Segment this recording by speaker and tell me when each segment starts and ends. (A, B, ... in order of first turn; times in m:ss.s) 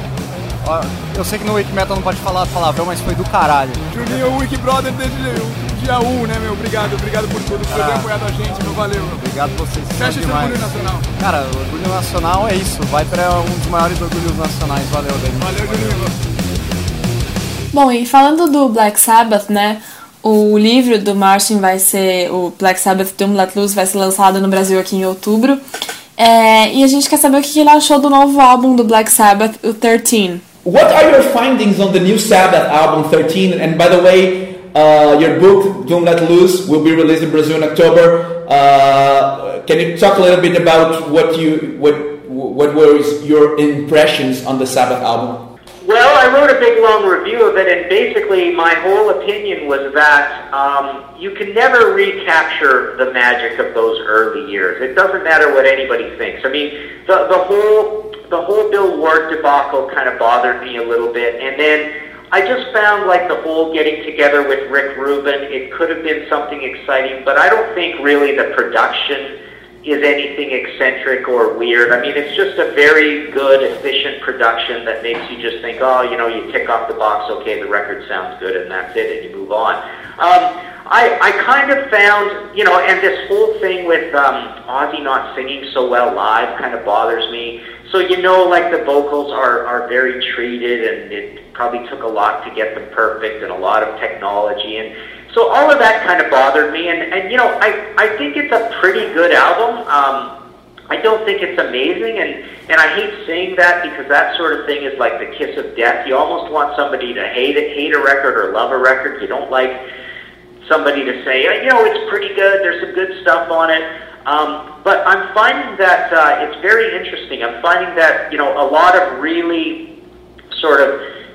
0:00.6-0:03.8 A
0:03.9-0:09.3 B
0:07.7-0:08.1 A
0:09.3-0:10.6 A
0:10.0-0:11.1 B
0:11.2-0:16.0 A
0:15.4-0:16.2 B
0:17.7-0:25.6 C
0:26.2-0:30.4 C
0:30.6-0:45.5 D
0:45.8-1:40.3 E
1:40.9-1:49.8 E
1:50.6-1:59.8 E
2:00.5-2:01.0 E